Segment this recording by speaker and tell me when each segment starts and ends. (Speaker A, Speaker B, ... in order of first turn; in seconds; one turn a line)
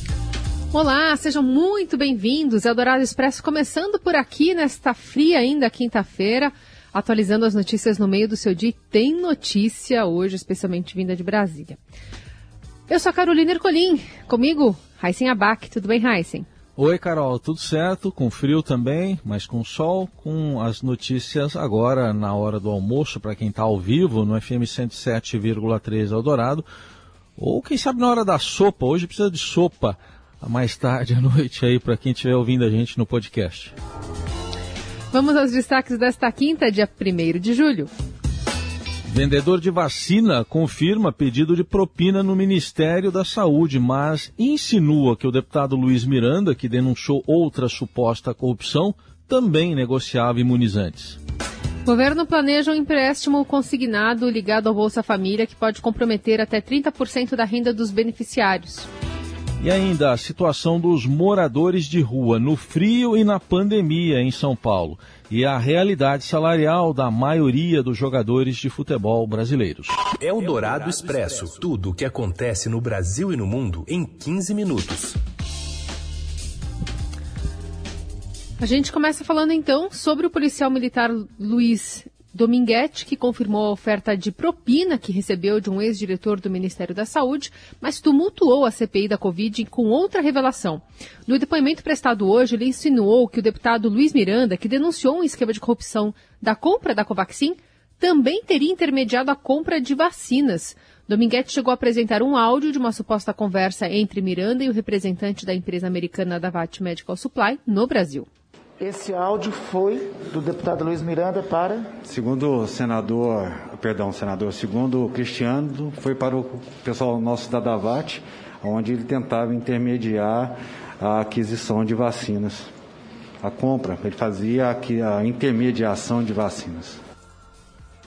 Speaker A: 0.7-11.8
Speaker A: 12.9-16.5
Speaker B: 16.8-26.7
Speaker B: 27.4-33.7
Speaker A: 35.1-37.9
Speaker B: 39.1-51.2
Speaker A: 51.9-58.9
Speaker B: 59.6-70.0
Speaker C: 70.2-75.2
Speaker A: 78.6-108.3
Speaker D: 108.8-111.9
Speaker E: 112.0-122.7
Speaker E: 123.4-127.0